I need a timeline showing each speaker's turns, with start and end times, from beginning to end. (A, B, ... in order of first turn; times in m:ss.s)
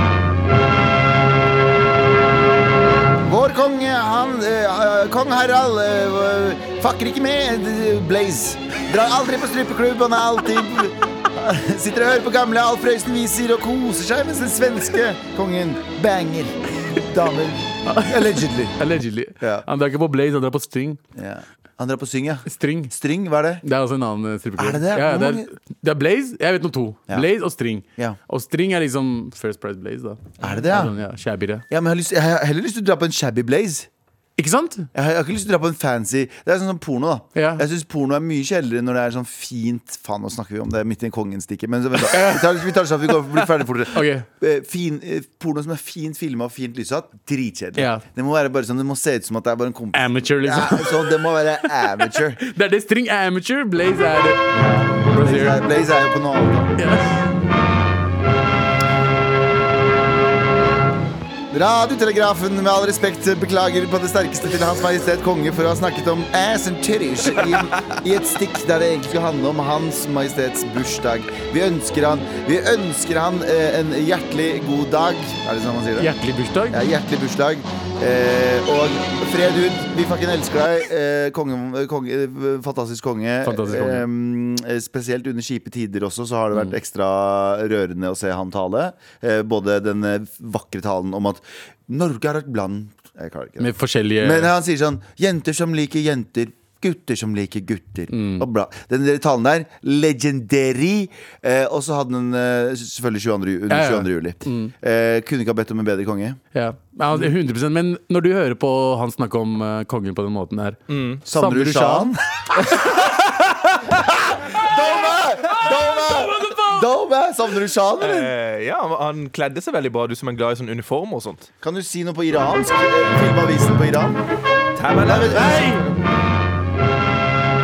0:03.2-0:18.8 A
0:17.9-0:21.0 B
0:19.4-0:19.7 A
0:21.2-0:23.6 A
0:22.5-0:22.9 B
0:23.6-0:31.6 B
0:24.6-0:25.5 A
0:30.4-0:30.9 A
0:31.7-0:33.9 A
0:34.4-0:34.9 B
0:34.9-0:52.4 A
0:37.4-0:37.6 B
0:42.0-0:42.7 B
0:43.9-0:44.3 B
0:47.8-0:48.0 B
0:49.9-0:54.4 B
0:54.5-0:56.8 A
0:55.1-0:55.6 B
0:56.8-0:57.3 B
1:01.5-1:16.1 A
1:16.0-1:16.8 B
1:16.7-1:33.7 A
1:23.4-1:24.1 B
1:33.6-1:34.5 B
1:34.2-1:46.4 A
1:38.1-1:38.5 B
1:43.7-1:44.7 B
1:46.5-1:52.1 B
1:50.9-1:51.2 C
1:51.3-1:58.3 A
1:56.3-1:56.8 B
1:58.0-2:01.5 C
2:01.6-2:04.2 A
2:04.8-2:05.7 C
2:05.0-2:06.0 A
2:05.3-2:05.8 B